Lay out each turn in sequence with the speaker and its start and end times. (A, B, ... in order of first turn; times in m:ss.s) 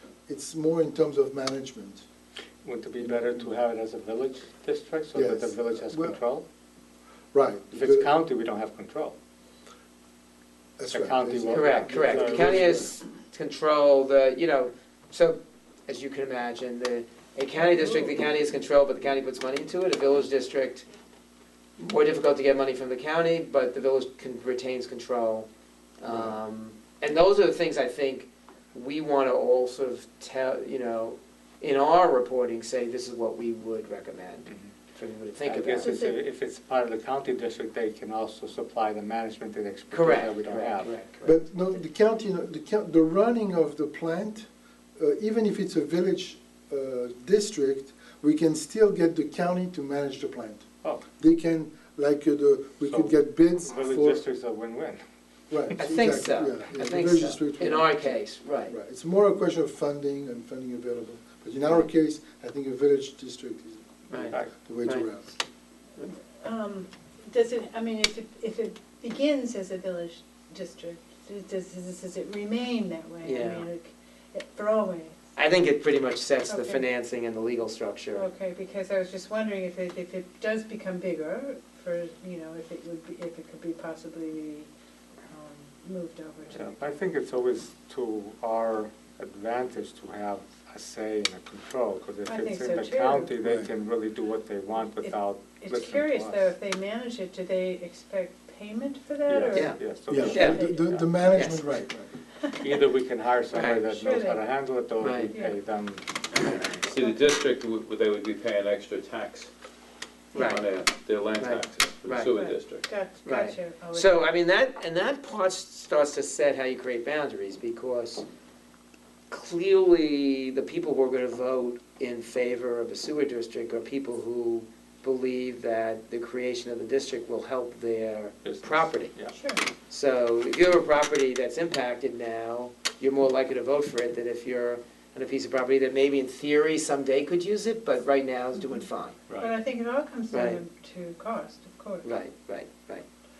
0:00.3-0:02.0 A
0:02.6-0:06.4 B
0:03.0-0:03.5 A
0:05.1-0:06.2 A
0:07.3-0:08.1 A
0:07.7-0:09.1 B
0:10.8-0:12.9 A
0:10.9-0:12.9 B
0:11.5-0:20.9 C
0:17.6-0:18.1 D
0:21.8-0:25.5 C
0:26.0-0:35.9 C
0:35.4-0:40.9 B
0:35.8-0:36.2 D
0:39.9-0:41.4 C
0:41.2-0:50.6 A
0:51.2-0:54.2 A
0:52.8-0:55.0 B
0:55.5-1:05.3 A
0:55.8-0:58.7 C
1:04.1-1:05.1 C
1:06.4-1:15.2 D
1:13.2-1:13.7 C
1:15.4-1:18.3 C
1:16.5-1:16.8 D
1:18.1-1:24.7 D
1:25.2-1:26.8 D
1:26.5-1:36.5 B
1:32.3-1:33.3 D
1:33.4-1:33.7 A
1:35.0-1:40.9 D
1:39.3-1:41.1 B
1:40.1-1:42.1 A
1:40.3-1:40.6 C
1:41.2-1:41.6 C
1:42.4-1:42.8 D
1:42.6-1:46.0 B
1:43.5-1:43.9 C
1:43.9-1:44.5 D
1:45.0-1:45.3 C
1:45.3-1:45.6 D
1:46.4-1:49.5 E
1:50.3-1:50.6 C
1:50.4-1:52.8 E
1:51.4-1:52.3 C
1:52.3-1:54.3 D
1:53.2-1:58.2 C
1:59.3-2:09.1 C
2:08.4-2:09.3 B
2:09.3-2:09.6 D
2:09.9-2:19.2 C
2:19.4-2:22.2 D
2:20.3-2:20.6 C
2:22.0-2:23.0 C